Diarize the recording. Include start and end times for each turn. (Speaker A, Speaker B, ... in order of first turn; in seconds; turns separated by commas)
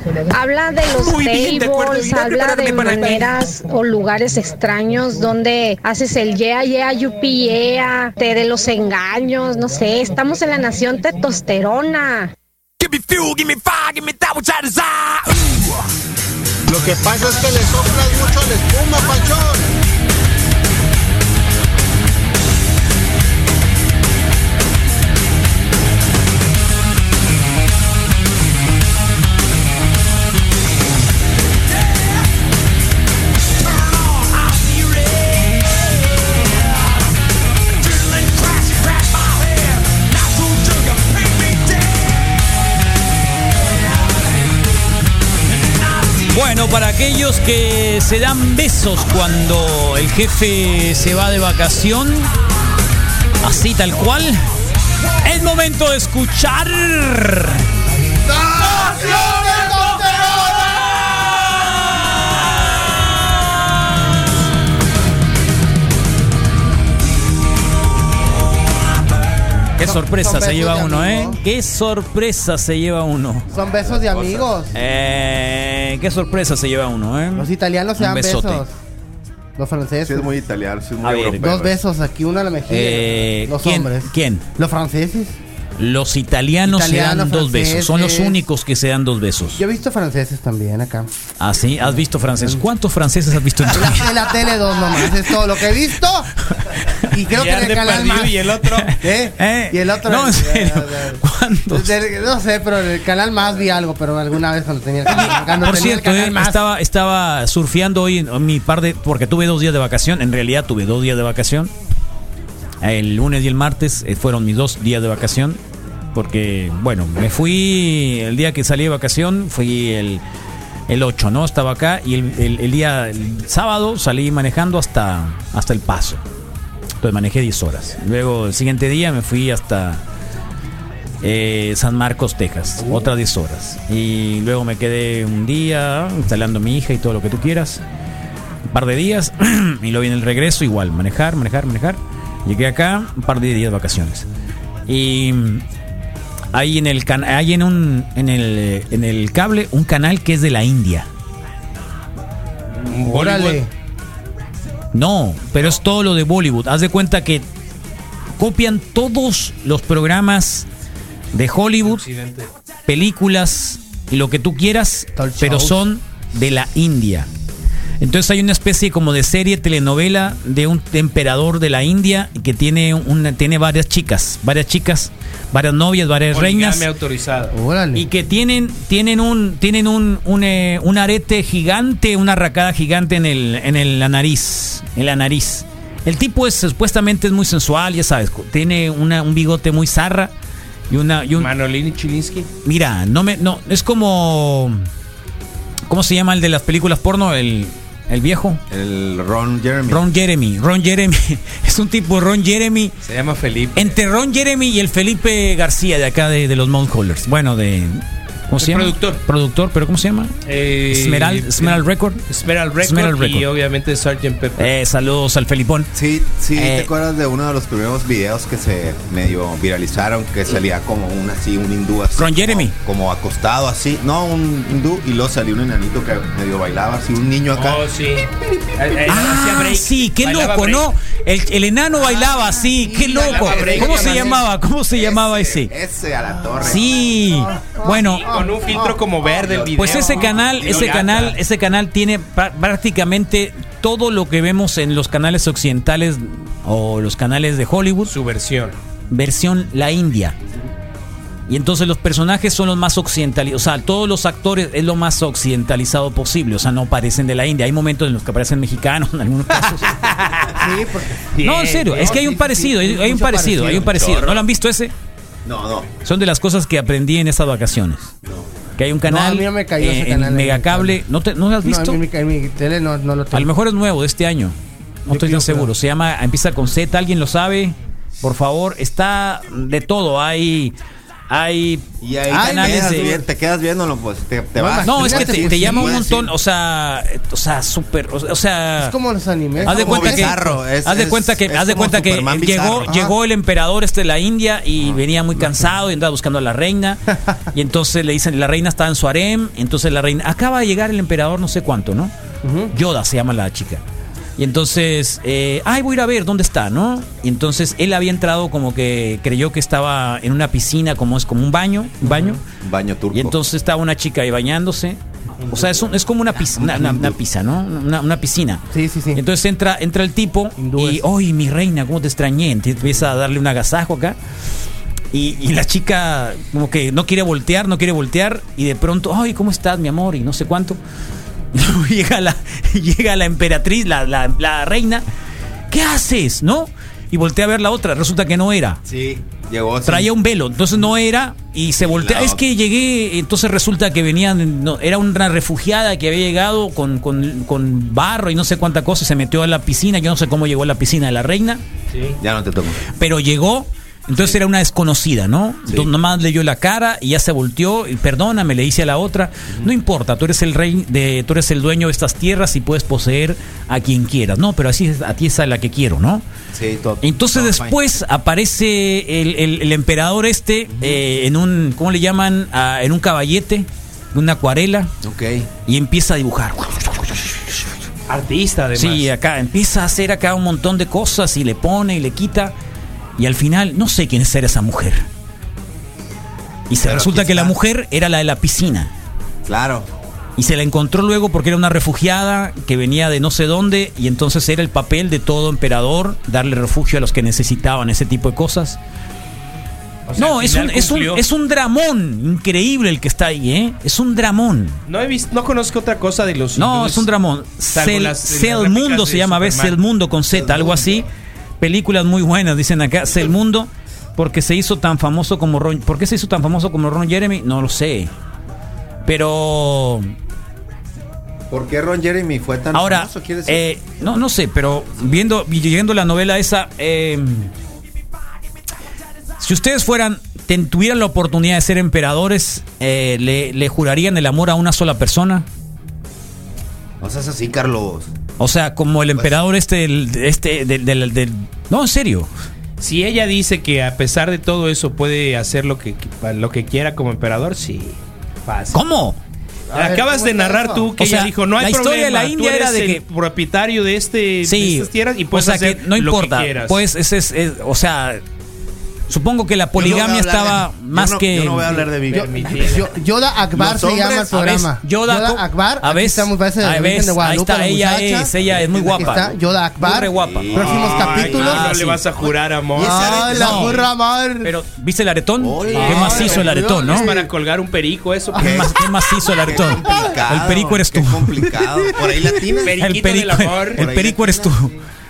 Speaker A: 0.2-12.3, Speaker B: 0.9-3.3, Speaker B: 12.8-15.5, Speaker C: 16.7-19.6, Speaker B: 33.6-35.9, Speaker B: 37.8-42.1, Speaker B: 45.9-46.3, Speaker D: 46.3-52.3, Speaker D: 53.4-54.4, Speaker D: 55.2-57.6, Speaker E: 58.3-60.6, Speaker D: 69.8-73.5, Speaker E: 69.8-71.4, Speaker E: 73.5-74.7, Speaker F: 73.8-74.5, Speaker D: 74.7-78.6, Speaker E: 77.3-78.7, Speaker E: 79.6-80.3, Speaker F: 80.0-81.8, Speaker D: 81.0-81.5, Speaker E: 81.4-85.4, Speaker D: 82.7-84.5, Speaker D: 85.8-89.6, Speaker E: 86.6-88.4, Speaker E: 89.6-91.1, Speaker D: 91.4-94.1, Speaker E: 93.7-96.3, Speaker D: 96.7-97.1, Speaker E: 97.1-98.4, Speaker G: 97.3-98.9, Speaker D: 98.8-101.9, Speaker E: 99.0-106.6, Speaker D: 105.1-111.7, Speaker D: 112.8-115.6, Speaker D: 116.1-120.2, Speaker D: 120.9-126.2, Speaker D: 127.0-130.0, Speaker D: 131.2-137.8, Speaker D: 138.7-144.2, Speaker D: 144.9-145.6, Speaker D: 146.5-151.1, Speaker G: 152.8-153.6, Speaker E: 153.0-153.7, Speaker D: 154.9-157.4, Speaker D: 158.4-160.7, Speaker D: 161.3-162.0, Speaker G: 161.8-162.5, Speaker D: 162.9-167.3, Speaker E: 165.2-165.8, Speaker D: 168.0-176.8, Speaker G: 176.3-177.5, Speaker E: 177.5-178.1, Speaker D: 177.9-190.3, Speaker D: 190.9-191.5, Speaker G: 191.4-192.5, Speaker D: 192.6-194.9, Speaker D: 195.9-198.6, Speaker F: 198.7-200.1, Speaker D: 199.9-202.9, Speaker G: 203.1-203.8, Speaker D: 203.7-210.3, Speaker G: 208.6-209.2, Speaker G: 210.4-214.7, Speaker D: 210.9-212.2, Speaker D: 212.8-213.5, Speaker D: 214.6-215.9, Speaker F: 215.9-227.9, Speaker D: 216.5-216.9, Speaker D: 222.2-222.7, Speaker G: 227.5-230.9, Speaker D: 229.1-235.7, Speaker E: 232.0-234.3, Speaker G: 233.2-234.4, Speaker F: 233.4-234.2, Speaker F: 234.9-237.2, Speaker D: 236.6-238.3, Speaker E: 237.6-237.9, Speaker G: 237.9-241.4, Speaker F: 239.2-241.1, Speaker D: 239.8-248.1, Speaker G: 248.1-248.8, Speaker D: 249.1-250.3, Speaker D: 251.5-260.0, Speaker G: 260.0-260.6, Speaker E: 260.5-261.3, Speaker G: 261.3-262.1, Speaker D: 261.4-264.9, Speaker E: 261.9-264.0, Speaker F: 263.8-264.4, Speaker F: 265.4-265.9, Speaker D: 266.0-268.1, Speaker D: 268.8-272.0, Speaker E: 269.1-271.0, Speaker E: 271.6-273.5, Speaker D: 273.3-280.7, Speaker E: 275.1-275.7, Speaker D: 281.3-283.2, Speaker F: 282.0-286.3, Speaker E: 282.3-283.2, Speaker E: 284.6-286.0, Speaker D: 284.8-288.9, Speaker E: 288.8-290.3, Speaker F: 289.6-293.0, Speaker D: 289.6-297.0, Speaker E: 292.9-293.1, Speaker D: 297.5-302.1, Speaker E: 302.4-302.7, Speaker D: 302.7-303.8, Speaker D: 304.4-312.4, Speaker E: 312.0-312.4, Speaker F: 312.6-313.4, Speaker D: 313.1-315.0, Speaker G: 315.4-315.9, Speaker D: 315.5-324.2, Speaker F: 316.4-317.2, Speaker E: 318.7-319.2, Speaker E: 320.6-321.0, Speaker D: 325.1-330.8, Speaker D: 331.5-335.0, Speaker D: 335.7-338.8, Speaker F: 338.9-340.1, Speaker D: 339.9-351.6, Speaker F: 341.8-342.4, Speaker G: 351.9-352.2, Speaker F: 352.2-352.8, Speaker D: 353.0-366.2, Speaker F: 366.5-367.8, Speaker D: 367.0-374.9, Speaker F: 370.7-371.0, Speaker F: 375.0-375.5, Speaker D: 375.6-377.6, Speaker G: 378.1-379.1, Speaker D: 378.8-382.5, Speaker D: 383.2-385.1, Speaker D: 386.7-388.9, Speaker F: 386.8-387.6, Speaker F: 389.4-389.9, Speaker D: 390.4-398.8, Speaker G: 400.1-401.2, Speaker D: 400.2-404.8, Speaker G: 404.9-407.1, Speaker D: 406.6-411.1, Speaker G: 407.7-409.8, Speaker F: 410.3-411.1, Speaker D: 411.6-418.1, Speaker D: 419.0-420.1, Speaker F: 421.5-423.6, Speaker D: 422.7-427.5, Speaker D: 429.4-435.4, Speaker F: 437.0-438.1, Speaker D: 438.4-442.3, Speaker G: 442.8-448.8, Speaker D: 448.7-449.2, Speaker E: 449.7-450.9, Speaker G: 449.7-456.8, Speaker D: 451.0-453.0, Speaker D: 454.4-458.2, Speaker D: 459.1-461.8, Speaker F: 459.7-462.8, Speaker G: 462.1-462.9, Speaker E: 462.1-468.3, Speaker F: 463.5-464.4, Speaker D: 464.3-472.0, Speaker G: 468.7-469.1, Speaker E: 468.9-471.7, Speaker F: 470.1-471.5, Speaker G: 470.6-473.6, Speaker F: 472.7-473.9, Speaker E: 472.8-474.5, Speaker D: 473.3-473.8, Speaker D: 474.4-477.1, Speaker F: 475.4-476.5, Speaker G: 475.7-478.7, Speaker E: 475.8-477.3, Speaker F: 478.3-482.8, Speaker D: 478.4-481.5, Speaker G: 482.6-483.9, Speaker D: 482.8-484.7, Speaker F: 483.7-484.5